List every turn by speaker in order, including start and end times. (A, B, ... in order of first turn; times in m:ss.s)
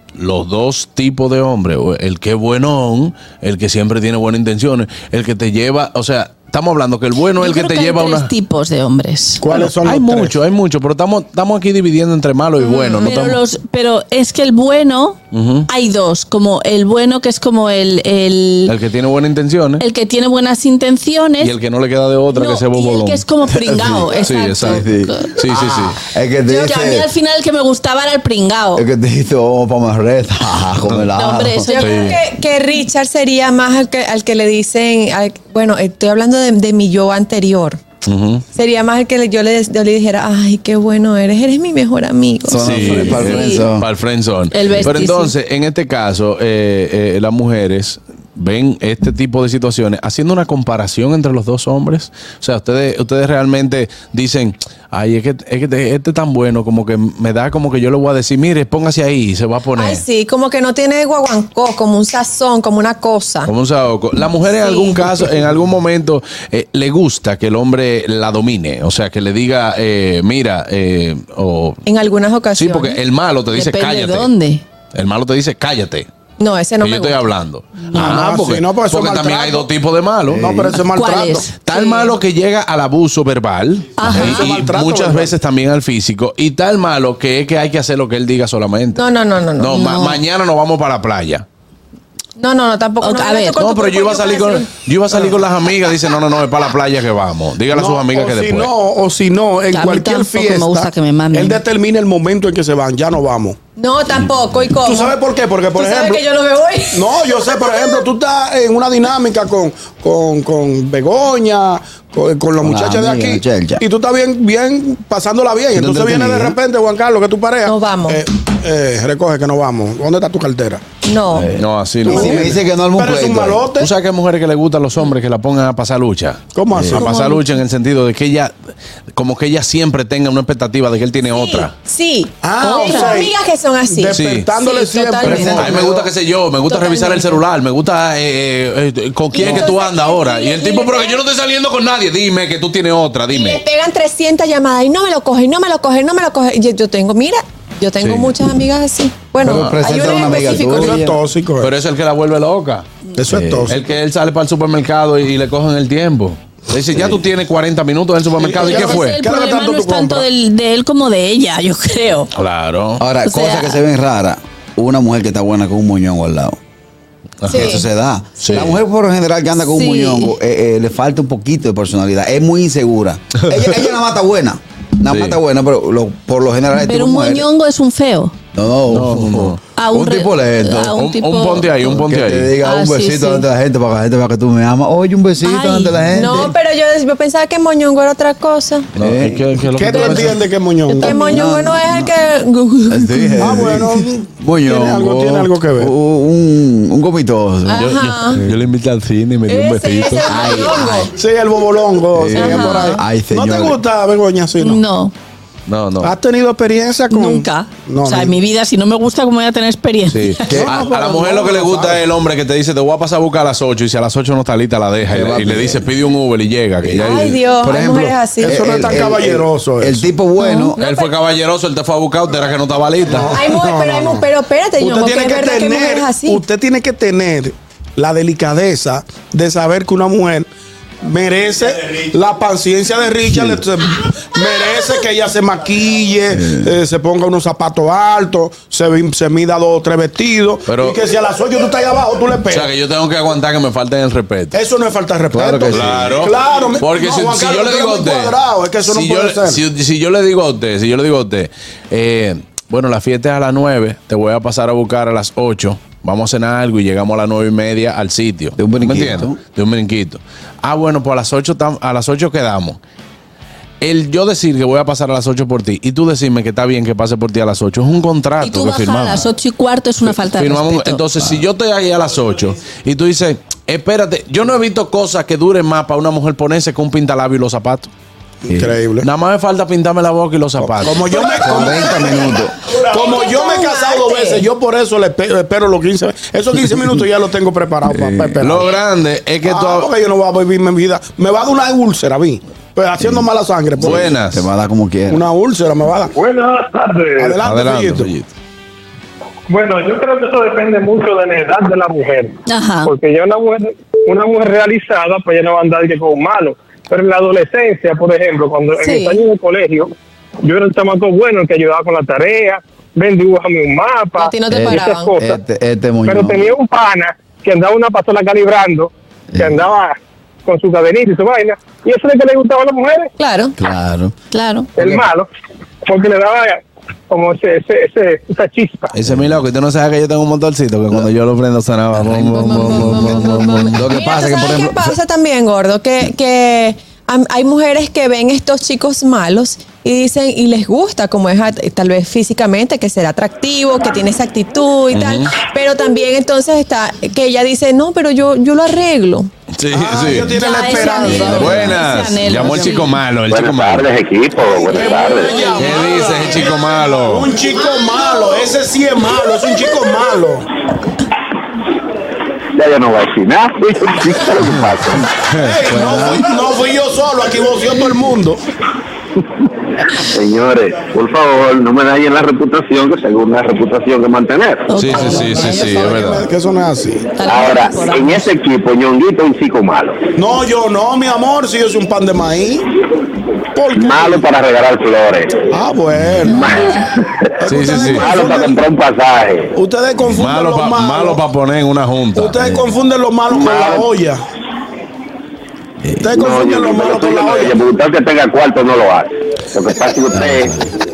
0:00.2-0:08.3 A
0:07.4-0:09.5 B
0:09.4-0:10.4 C
0:09.6-0:13.4 A
0:12.6-0:15.2 B
0:15.3-0:15.7 A
0:15.7-0:18.7 B
0:18.6-0:19.8 A
0:19.8-0:21.5 B
0:21.4-0:23.2 A
0:22.3-0:25.0 B
0:23.4-0:27.1 D
0:24.1-0:24.8 A
0:25.4-0:26.0 A
0:26.5-0:28.8 B
0:28.8-0:31.7 D
0:31.2-0:32.1 B
0:31.6-0:37.8 E
0:31.8-0:32.1 A
0:38.0-0:38.4 A
0:38.5-0:43.3 E
0:42.4-0:43.9 D
0:42.6-1:00.0 A
0:43.3-0:43.6 B
0:44.6-0:45.3 B
0:59.8-1:03.5 E
1:03.5-1:11.8 A
1:04.6-1:05.0 E
1:11.9-1:13.0 E
1:12.5-1:14.3 A
1:13.5-1:14.6 B
1:14.9-1:16.1 A
1:16.4-1:17.2 E
1:16.8-1:20.5 A
1:17.9-1:19.8 C
1:20.3-1:20.8 D
1:20.4-1:21.5 C
1:20.9-1:22.1 B
1:21.5-1:29.0 A
1:24.0-1:24.5 B
1:24.1-1:25.4 C
1:28.9-1:29.8 E
1:29.6-1:31.5 A
1:29.9-1:30.2 B
1:32.4-1:34.7 E
1:33.0-1:33.5 B
1:33.5-1:38.7 A
1:37.7-1:43.6 C
1:39.7-1:41.6 B
1:40.7-1:41.4 F
1:43.8-1:45.1 E
1:44.8-1:46.2 C
1:45.7-1:47.6 E
1:46.9-2:00.8 C
1:52.6-1:53.8 D
1:55.8-1:56.6 D
1:57.6-1:58.2 E
2:01.0-2:01.5 E
2:01.3-2:03.7 D
2:01.6-2:02.5 A
2:02.0-2:03.9 C
2:03.8-2:08.5 A
2:06.5-2:07.2 C
2:06.7-2:07.0 D
2:07.0-2:07.4 E
2:09.1-2:11.7 A
2:11.3-2:15.8 E
2:12.4-2:16.1 C
2:14.1-2:14.5 A
2:15.2-2:15.8 D
2:15.2-2:23.6 A
2:16.7-2:17.4 E
2:19.3-2:21.2 E
2:19.4-2:19.8 C
2:23.3-2:31.0 E
2:28.0-2:28.3 A
2:29.4-2:31.2 D
2:29.4-2:30.0 A
2:30.0-2:31.7 C
2:31.6-2:32.9 A
2:33.2-2:33.8 C
2:33.3-2:33.7 D
2:33.7-2:39.2 A
2:36.9-2:37.2 D
2:38.4-2:40.3 C
2:38.6-2:42.3 B
2:42.3-2:43.0 A
2:43.0-2:46.6 D
2:43.2-2:43.8 B
2:47.4-2:47.8 A
2:47.5-2:47.9 E
2:47.5-2:57.5 D
2:48.4-2:48.8 A
2:49.7-2:50.3 E
2:53.4-2:53.8 A
2:55.0-2:55.4 A
2:56.8-2:58.3 B
2:58.5-3:01.0 D
2:58.9-2:59.6 A
2:59.8-3:01.9 B
3:00.9-3:02.6 A
3:01.8-3:06.5 D
3:02.6-3:03.4 B
3:05.4-3:05.9 B
3:06.1-3:08.9 E
3:09.0-3:10.4 A
3:09.0-3:09.5 D
3:09.6-3:11.2 C
3:09.9-3:13.6 E
3:11.0-3:12.1 D
3:12.9-3:18.6 D
3:13.4-3:15.9 C
3:17.6-3:18.4 E
3:17.7-3:20.5 A
3:19.5-3:21.1 E
3:20.2-3:21.1 D
3:21.1-3:24.8 C
3:22.1-3:23.8 D
3:22.4-3:23.0 E
3:24.6-3:25.1 B
3:25.7-3:26.1 A
3:26.0-3:28.4 C
3:27.1-3:30.6 B
3:30.1-3:37.4 A
3:30.5-3:30.8 D
3:30.5-3:32.0 C
3:35.1-3:35.9 D
3:36.8-3:40.8 D
3:37.0-3:38.6 E
3:38.4-3:40.0 C
3:40.5-3:41.1 E
3:40.8-3:43.4 A
3:43.1-3:50.5 C
3:43.3-3:46.4 E
3:51.0-4:02.7 C
3:56.3-3:56.7 D
4:00.6-4:01.0 A
4:02.5-4:04.6 A
4:04.5-4:09.6 C
4:05.3-4:06.1 D
4:05.7-4:22.8 A
4:18.6-4:19.4 D
4:23.8-4:29.3 A
4:28.4-4:31.0 B
4:30.1-4:37.9 A
4:38.4-4:39.1 C
4:38.5-4:38.7 D
4:39.0-4:41.4 A
4:40.6-4:48.7 C
4:41.2-4:42.5 D
4:42.9-4:44.5 E
4:47.9-4:48.4 D
4:48.4-4:49.9 A
4:49.4-4:54.2 C
4:53.0-4:53.2 D
4:53.8-4:54.5 A
4:53.8-4:55.2 D
4:55.1-4:56.1 C
4:56.2-4:57.0 B
4:56.5-4:57.3 F
4:57.2-4:58.1 C
4:57.4-4:58.3 A
4:59.5-5:02.3 F
4:59.5-5:00.6 B
5:01.9-5:03.4 B
5:02.8-5:09.9 F
5:04.6-5:06.0 B
5:07.7-5:09.7 B
5:10.5-5:15.3 F
5:10.5-5:11.9 B
5:13.1-5:14.0 B
5:14.2-5:15.2 E
5:14.5-5:16.5 D
5:16.0-5:18.9 F
5:16.3-5:18.6 B
5:19.3-5:19.7 D
5:19.4-5:19.8 B
5:19.5-5:19.9 F
5:20.5-5:21.0 B
5:20.5-5:23.1 F
5:21.6-5:22.8 B
5:23.2-5:23.6 E
5:23.6-5:24.1 D
5:24.3-5:25.2 B
5:24.8-5:25.2 F
5:24.8-5:25.0 D
5:25.9-5:26.5 B
5:26.0-5:26.5 F
5:27.1-5:28.9 B
5:27.2-5:28.9 F
5:28.9-5:33.7 A
5:29.0-5:29.4 D
5:32.0-5:35.0 D
5:32.4-5:49.3 E
5:44.9-5:45.3 A
5:49.6-5:50.4 A
5:49.7-5:51.8 C
5:50.3-5:53.0 B
5:51.3-5:54.0 A
5:52.4-5:52.8 C
5:53.3-5:55.5 G
5:54.5-6:00.5 C
5:55.3-5:55.6 B
5:55.5-5:57.3 A
6:02.5-6:05.0 G
6:04.5-6:06.1 A
6:05.4-6:08.4 C
6:05.8-6:06.1 D
6:10.1-6:14.6 G
6:14.7-6:15.7 B
6:14.7-6:16.2 A
6:15.2-6:17.0 C
6:17.2-6:18.2 B
6:17.3-6:20.0 G
6:20.2-6:22.6 C
6:23.5-6:24.4 C
6:23.7-6:25.5 G
6:25.5-6:26.5 C
6:26.3-6:27.1 G
6:27.4-6:28.7 C
6:27.5-6:28.2 A
6:28.0-6:29.5 G
6:29.5-6:31.2 C
6:30.1-6:32.6 A
6:32.1-6:34.2 C
6:33.3-6:33.9 G
6:36.0-6:37.7 C
6:36.2-6:40.5 G
6:40.1-6:40.6 D